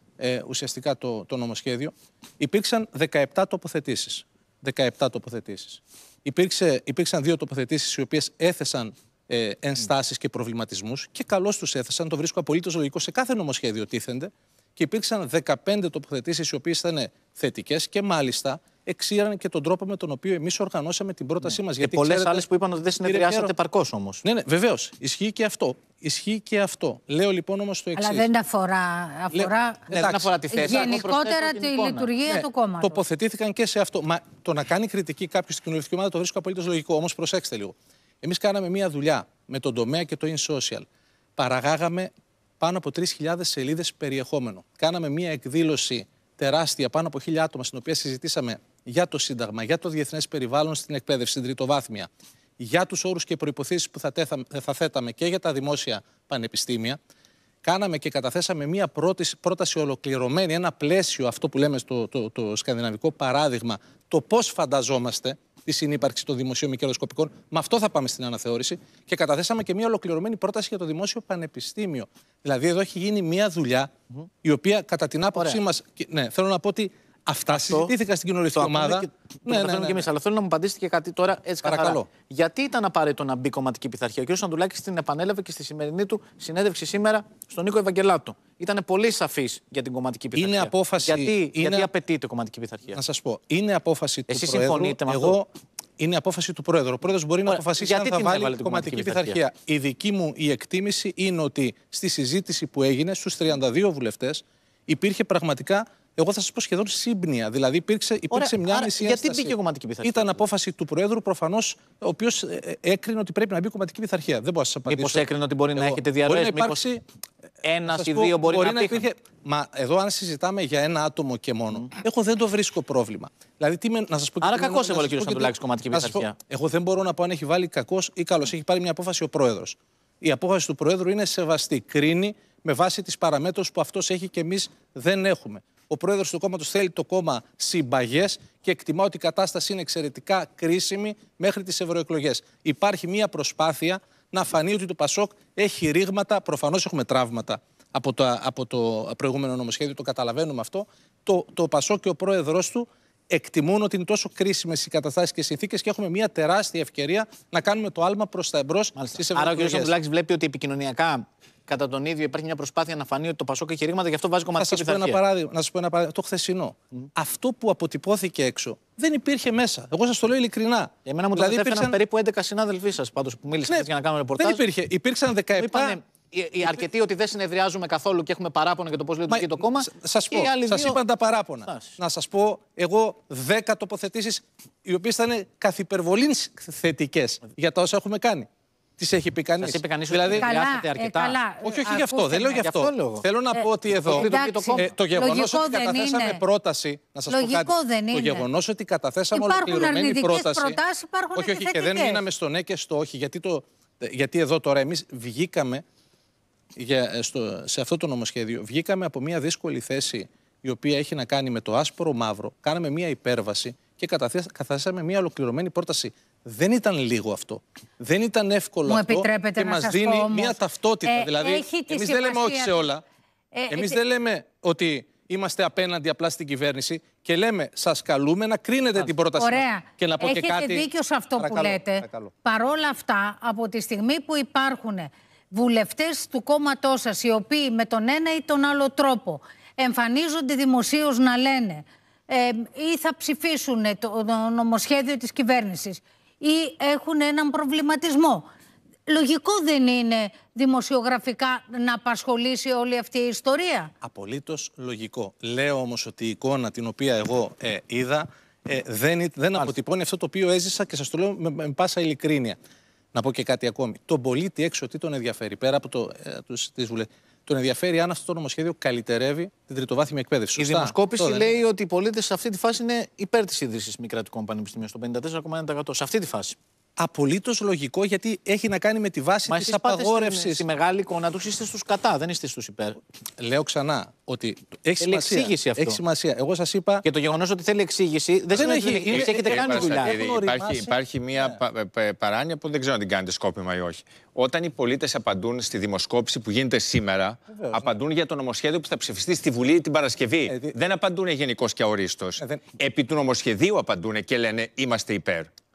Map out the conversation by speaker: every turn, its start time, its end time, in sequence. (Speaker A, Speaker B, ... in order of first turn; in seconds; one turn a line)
Speaker A: 0.2-22.4
Speaker B: 21.4-24.2
Speaker A: 23.0-23.5
Speaker A: 24.2-28.3
Speaker C: 27.9-29.9
Speaker A: 29.3-30.9
Speaker B: 29.9-32.1
Speaker C: 30.5-33.0
Speaker A: 32.2-40.9
Speaker A: 41.4-57.0
Speaker A: 57.6-73.9
Speaker A: 74.4-80.1
Speaker B: 75.3-75.6
Speaker B: 77.5-77.9
Speaker B: 78.5-93.0
Speaker A: 81.6-82.1
Speaker A: 90.3-91.9
Speaker A: 92.9-117.0
Speaker B: 94.3-95.4
Speaker B: 97.5-99.4
Speaker B: 108.3-110.4
Speaker B: 114.9-116.8
Speaker B: 117.6-119.0
Speaker A: 117.8-159.9
Speaker B: 124.4-126.3
Speaker B: 158.9-165.2
Speaker A: 164.6-171.9
Speaker B: 171.1-174.6
Speaker A: 174.4-176.0
Speaker B: 175.5-181.0
Speaker A: 179.3-190.5
Speaker B: 181.6-181.9
Speaker B: 189.6-191.4
Speaker C: 190.4-192.6
Speaker A: 191.6-200.8
Speaker B: 192.6-193.2
Speaker C: 193.5-196.4
Speaker B: 194.1-194.9
Speaker C: 197.3-198.4
Speaker C: 199.3-202.2
Speaker A: 201.3-205.8
Speaker A: 206.8-223.0
Speaker C: 218.8-223.0
Speaker C: 223.5-224.0
Speaker A: 223.7-232.3
Speaker C: 229.3-248.5
Speaker C: 249.1-253.9
Speaker A: 254.0-262.6
Speaker A: 263.1-271.6
Speaker B: 270.6-276.6
Speaker A: 277.0-280.6
Speaker B: 279.5-283.0
Speaker A: 283.4-287.0
Speaker B: 285.0-286.0
Speaker B: 287.0-290.2
Speaker A: 288.5-291.6
Speaker D: 289.1-305.5
Speaker A: 297.5-298.0
Speaker A: 300.4-300.7
Speaker A: 302.4-302.7